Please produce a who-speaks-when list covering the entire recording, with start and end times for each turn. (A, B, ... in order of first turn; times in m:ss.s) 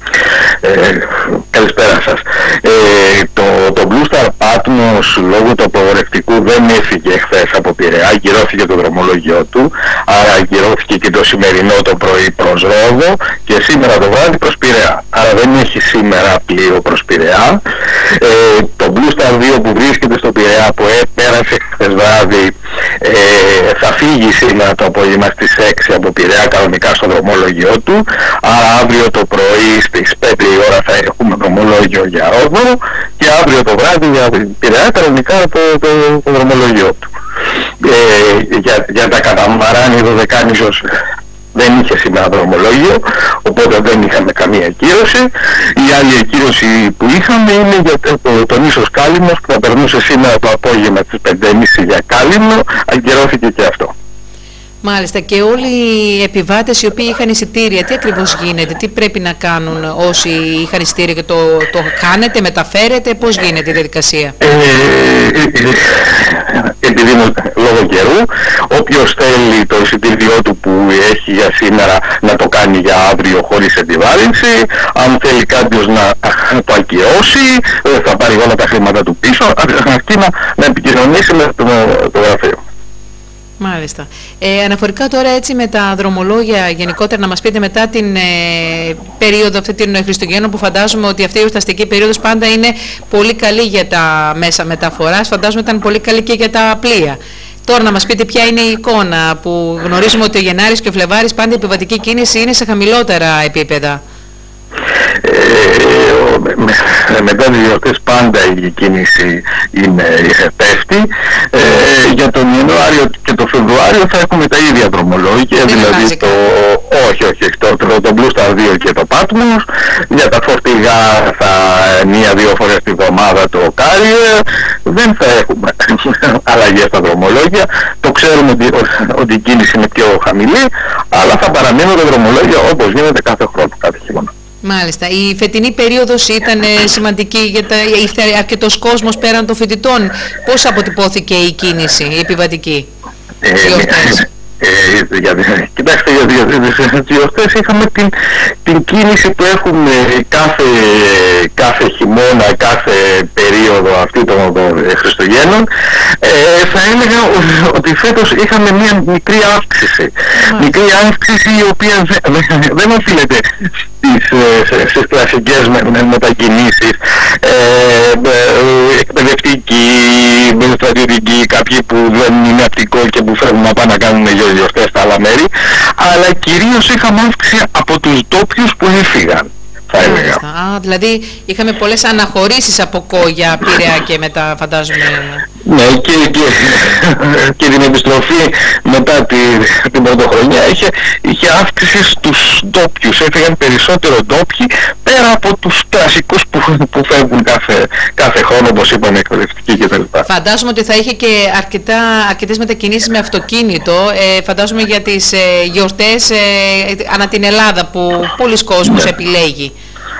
0:00.6-0:17.6 A
0:18.2-0:37.0 A
0:37.8-0:40.8 A
0:41.5-0:53.9 A
0:54.8-1:04.4 B
1:04.4-1:22.6 A
1:23.6-1:44.0 B
1:45.2-2:14.3 A
1:55.7-1:56.4 B
2:14.6-2:22.9 B
2:23.4-2:28.1 A
2:23.6-2:24.3 B
2:28.6-2:35.7 A
2:36.2-2:43.4 A
2:40.4-2:40.7 B
2:44.0-3:00.4 A
3:00.0-3:05.5 B
3:05.6-3:20.3 A
3:20.3-3:29.7 B